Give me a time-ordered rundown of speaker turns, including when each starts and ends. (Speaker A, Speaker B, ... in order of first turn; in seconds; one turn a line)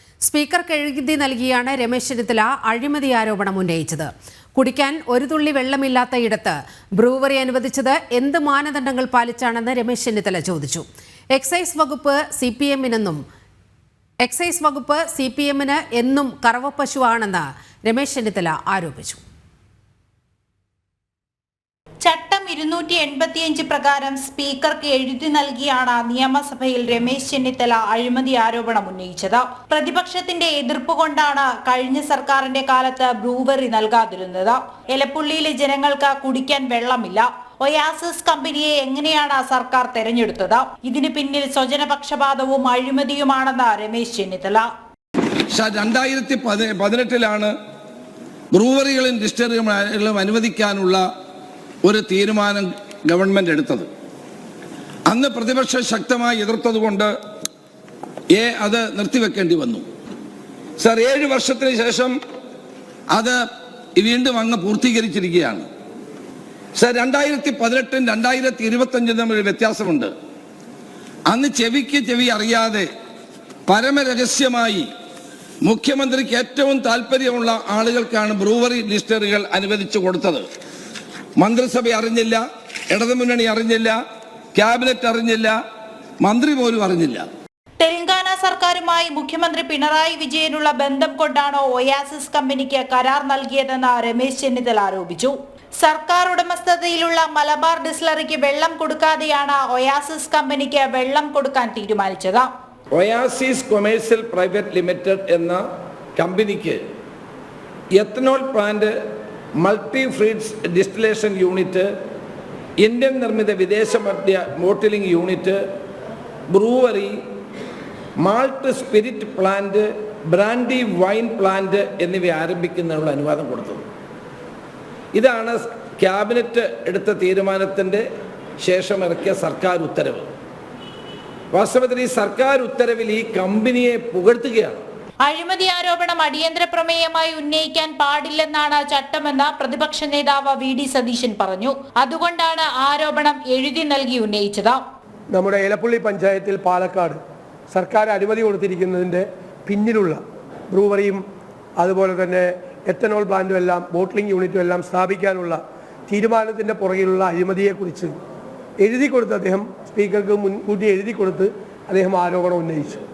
Speaker A: 0.2-13.2
Speaker A: 14.2-19.2
Speaker B: 22.0-44.7
Speaker C: 45.5-47.5
Speaker C: 48.5-51.0
Speaker C: 51.8-53.9
Speaker C: 55.1-57.1
Speaker C: 58.3-59.8
Speaker C: 60.8-62.1
Speaker C: 63.1-63.4
Speaker C: 64.0-65.7
Speaker C: 66.8-70.1
Speaker C: 71.3-72.9
Speaker C: 73.7-74.9
Speaker C: 75.6-80.4
Speaker C: 81.4-84.0
Speaker C: 84.5-85.5
Speaker C: 86.2-87.2
Speaker B: 87.8-102.5
Speaker C: 102.9-105.6
Speaker C: 106.2-106.8
Speaker C: 108.0-108.9
Speaker C: 109.6-111.9
Speaker C: 112.8-115.6
Speaker C: 116.5-117.2
Speaker C: 118.2-123.8
Speaker C: 125.1-128.0
Speaker C: 128.6-130.3
Speaker C: 131.5-134.8
Speaker B: 135.2-144.8
Speaker D: 145.3-147.2
Speaker D: 147.7-150.2
Speaker D: 150.7-151.2
Speaker D: 151.8-158.1
Speaker D: 158.8-163.0